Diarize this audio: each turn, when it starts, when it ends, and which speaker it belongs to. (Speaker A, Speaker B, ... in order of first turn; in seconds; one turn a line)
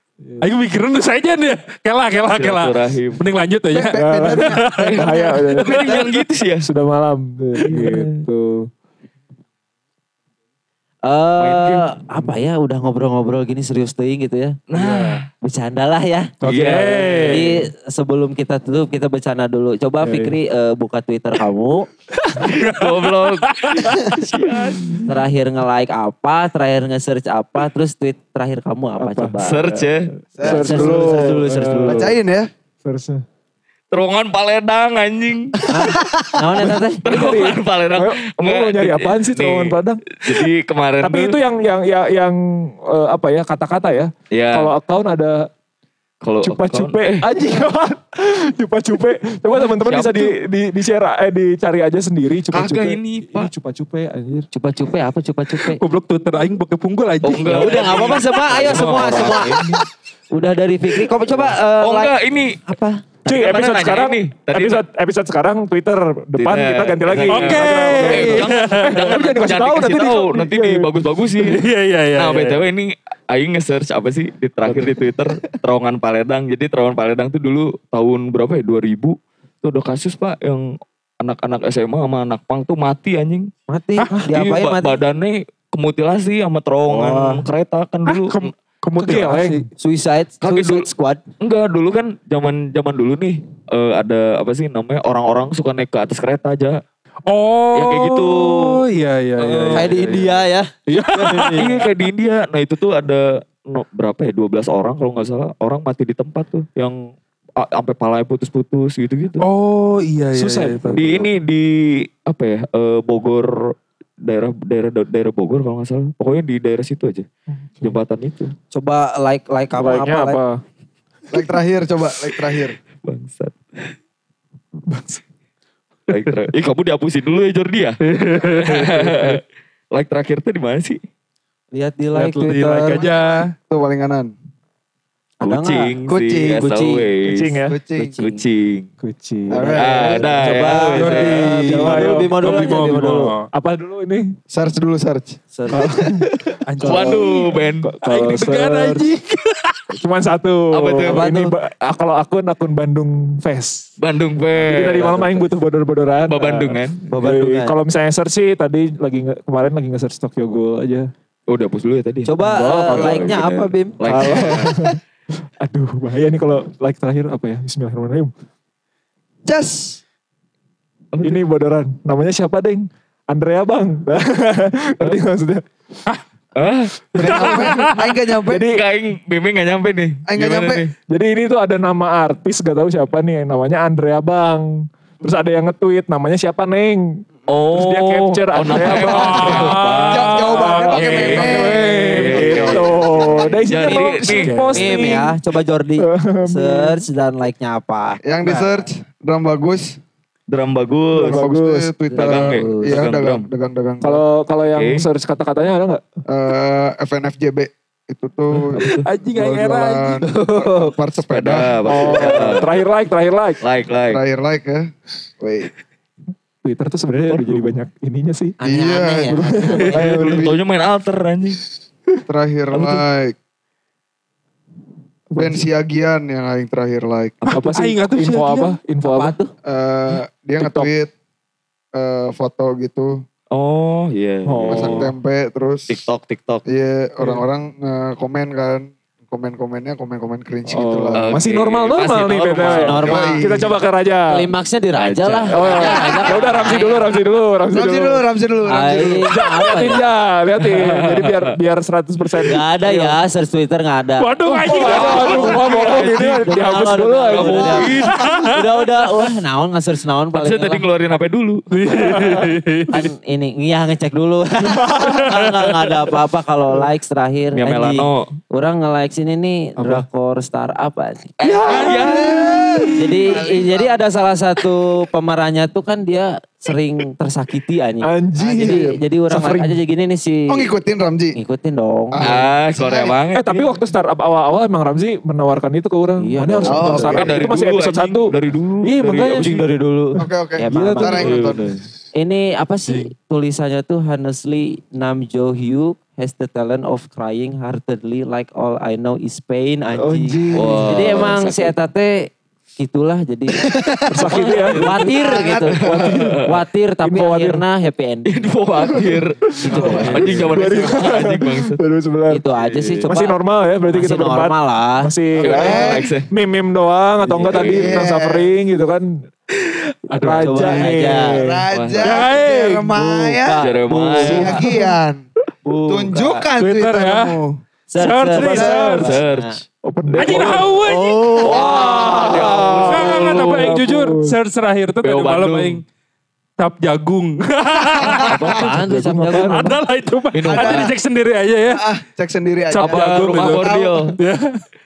Speaker A: 0.4-5.9
Speaker B: 2.3-3.2
Speaker C: 3.7-6.1
Speaker D: 3.9-5.8
Speaker B: 5.6-6.7
Speaker D: 6.6-8.7
Speaker B: 7.7-8.2
Speaker E: 11.0-14.6
Speaker B: 11.4-11.9
Speaker B: 14.7-15.3
Speaker A: 14.7-15.2
Speaker E: 15.4-16.3
Speaker B: 16.4-17.4
Speaker A: 16.4-17.5
Speaker D: 16.5-17.2
Speaker E: 17.2-21.9
Speaker D: 20.0-20.3
Speaker A: 22.2-24.2
Speaker B: 22.4-25.1
Speaker A: 24.7-24.9
Speaker E: 25.1-29.7
Speaker D: 29.0-32.1
Speaker B: 29.4-30.9
Speaker C: 30.4-32.5
Speaker E: 30.4-32.1
Speaker D: 32.8-33.2
Speaker B: 33.9-35.6
Speaker C: 35.7-36.3
Speaker E: 35.7-37.2
Speaker B: 36.7-41.4
Speaker D: 37.0-40.4
Speaker D: 41.0-45.5
Speaker B: 44.3-44.7
Speaker B: 46.2-47.3
Speaker D: 46.4-54.5
Speaker B: 49.5-50.3
Speaker B: 52.5-53.5
Speaker E: 54.5-55.8
Speaker A: 55.6-58.2
Speaker B: 57.2-59.8
Speaker E: 57.3-59.7
Speaker D: 59.0-59.4
Speaker E: 60.3-63.0
Speaker B: 61.6-62.6
Speaker B: 63.2-64.8
Speaker D: 63.2-70.9
Speaker B: 66.4-71.6
Speaker A: 67.3-69.0
Speaker A: 71.3-72.6
Speaker B: 72.2-83.5
Speaker D: 74.6-75.0
Speaker E: 83.7-85.0
Speaker A: 84.0-84.2
Speaker B: 84.3-88.5
Speaker A: 88.0-89.7
Speaker D: 89.0-89.6
Speaker E: 89.8-91.2
Speaker B: 90.4-90.9
Speaker B: 91.4-96.8
Speaker A: 97.3-101.7
Speaker B: 97.7-98.8
Speaker B: 99.4-100.0
Speaker E: 99.7-101.7
Speaker B: 101.5-107.0
Speaker B: 107.6-109.5
Speaker A: 109.4-111.3
Speaker D: 110.3-111.1
Speaker B: 110.9-117.3
Speaker B: 117.8-118.5
Speaker E: 118.7-120.4
Speaker D: 119.7-120.6
Speaker C: 121.3-122.8
Speaker B: 123.0-123.9
Speaker D: 124.9-125.2
Speaker B: 126.1-128.0
Speaker A: 128.0-129.4
Speaker B: 128.6-129.4
Speaker B: 129.9-131.0
Speaker E: 131.7-133.1
Speaker A: 132.1-133.5
Speaker C: 132.9-134.3
Speaker E: 135.4-135.9
Speaker B: 135.4-137.5
Speaker C: 136.1-136.8
Speaker E: 136.6-137.1
Speaker D: 137.2-137.8
Speaker C: 137.7-138.2
Speaker E: 137.9-138.4
Speaker B: 138.2-138.9
Speaker D: 139.0-139.7
Speaker C: 139.5-140.5
Speaker E: 139.5-143.3
Speaker B: 139.7-141.6
Speaker A: 140.9-143.5
Speaker D: 141.3-142.6
Speaker D: 143.5-144.3
Speaker C: 144.5-145.4
Speaker E: 145.5-146.0
Speaker D: 145.7-147.2
Speaker A: 146.6-149.8
Speaker B: 146.8-147.9
Speaker D: 147.8-149.1
Speaker D: 149.9-153.9
Speaker B: 150.7-151.3
Speaker E: 151.0-151.5
Speaker B: 154.0-155.5
Speaker D: 154.6-161.1
Speaker B: 156.3-157.1
Speaker E: 157.1-157.8
Speaker B: 161.5-162.3
Speaker E: 162.2-164.7
Speaker C: 162.8-163.3
Speaker B: 162.9-164.8
Speaker D: 164.1-165.0
Speaker D: 165.6-168.3
Speaker C: 169.4-170.0
Speaker B: 171.1-171.4
Speaker D: 171.2-175.6
Speaker B: 176.6-177.7
Speaker C: 177.1-178.7
Speaker A: 177.3-178.0
Speaker D: 178.5-178.8
Speaker B: 178.5-180.9
Speaker C: 180.3-180.8
Speaker D: 181.1-184.6
Speaker D: 185.2-189.6
Speaker B: 187.5-195.2
Speaker A: 188.8-192.5
Speaker C: 189.0-193.5
Speaker D: 190.9-195.3
Speaker E: 193.8-194.2
Speaker A: 194.4-194.8
Speaker E: 194.7-198.2
Speaker D: 196.0-197.0
Speaker C: 198.2-200.0
Speaker B: 200.5-201.5
Speaker C: 201.1-204.1
Speaker D: 201.2-201.9
Speaker E: 202.1-203.1
Speaker B: 202.2-203.5
Speaker D: 204.0-206.1
Speaker B: 204.7-205.1
Speaker C: 206.3-212.6
Speaker B: 208.7-209.0
Speaker A: 208.9-210.8
Speaker B: 211.3-212.7
Speaker D: 211.8-213.6
Speaker B: 213.6-214.2
Speaker C: 214.1-215.7
Speaker D: 216.6-218.6
Speaker B: 217.3-217.7
Speaker E: 218.6-219.8
Speaker C: 218.6-220.6
Speaker D: 219.3-220.5
Speaker B: 219.9-221.6
Speaker C: 222.3-223.3
Speaker B: 222.7-223.0
Speaker D: 225.3-225.7
Speaker C: 225.4-227.4
Speaker A: 227.5-228.8
Speaker D: 227.5-229.3
Speaker E: 229.0-229.5
Speaker C: 229.6-231.1
Speaker D: 230.6-230.9
Speaker C: 231.9-233.2
Speaker B: 233.5-235.1
Speaker D: 234.4-235.1
Speaker C: 234.7-235.9
Speaker B: 235.9-236.6
Speaker C: 236.7-241.3
Speaker D: 240.7-244.4
Speaker B: 241.2-243.2
Speaker E: 242.8-243.5
Speaker C: 242.9-243.8
Speaker E: 244.3-247.1
Speaker B: 244.9-246.4
Speaker D: 245.5-248.2
Speaker C: 247.7-249.3
Speaker E: 248.7-250.0
Speaker D: 249.3-253.2
Speaker B: 250.6-251.5
Speaker E: 252.5-255.5
Speaker A: 254.2-256.1
Speaker D: 254.5-257.9
Speaker B: 254.7-258.3
Speaker E: 256.4-260.8
Speaker A: 257.9-258.6
Speaker B: 260.3-261.6
Speaker A: 261.7-263.1
Speaker D: 262.1-262.4
Speaker E: 262.9-271.3
Speaker D: 264.9-265.2
Speaker A: 265.0-265.6
Speaker B: 267.5-268.3
Speaker D: 269.8-270.0
Speaker B: 271.4-272.9
Speaker D: 271.4-273.4
Speaker C: 271.7-274.0
Speaker E: 272.9-280.7
Speaker D: 278.0-279.8
Speaker C: 280.5-281.4
Speaker E: 281.3-282.3
Speaker C: 282.1-283.1
Speaker B: 282.2-283.7
Speaker D: 283.3-289.7
Speaker E: 286.2-287.4
Speaker C: 286.6-287.4
Speaker B: 287.1-289.6
Speaker E: 289.2-291.3
Speaker C: 290.2-291.8
Speaker D: 290.7-291.4
Speaker B: 291.2-291.8
Speaker E: 292.1-308.9
Speaker D: 300.0-301.3
Speaker B: 300.5-301.7
Speaker D: 304.1-305.1
Speaker B: 304.7-306.5
Speaker C: 305.3-305.6
Speaker D: 305.7-306.5
Speaker D: 307.0-307.6
Speaker B: 308.3-311.8
Speaker D: 308.9-312.4
Speaker E: 309.6-310.2
Speaker C: 309.7-310.4
Speaker A: 309.8-310.5
Speaker E: 312.3-315.1
Speaker B: 312.5-313.1
Speaker D: 313.1-319.1
Speaker C: 315.4-316.1
Speaker B: 315.4-316.3
Speaker B: 317.2-318.1
Speaker C: 317.5-318.5
Speaker A: 320.1-321.0
Speaker D: 320.1-321.6
Speaker E: 320.2-321.5
Speaker C: 321.3-323.6
Speaker B: 321.7-322.2
Speaker A: 322.0-323.0
Speaker E: 323.4-324.7
Speaker B: 323.6-324.6
Speaker C: 324.1-325.2
Speaker D: 324.2-324.8
Speaker E: 325.6-326.5
Speaker C: 325.9-327.6
Speaker A: 326.6-327.4
Speaker E: 327.9-329.6
Speaker A: 327.9-329.1
Speaker D: 328.4-329.1
Speaker C: 328.5-329.1
Speaker B: 329.0-329.5
Speaker D: 329.8-330.7
Speaker B: 330.1-330.7
Speaker A: 330.2-331.4
Speaker E: 330.8-332.6
Speaker B: 331.4-333.9
Speaker D: 331.5-334.2
Speaker A: 332.9-335.8
Speaker B: 335.0-335.8
Speaker A: 336.6-338.6
Speaker E: 338.1-339.7
Speaker D: 338.3-339.8
Speaker A: 339.3-341.8
Speaker B: 340.3-340.9
Speaker C: 340.4-341.0
Speaker C: 341.7-344.2
Speaker A: 342.7-344.6
Speaker B: 342.7-344.1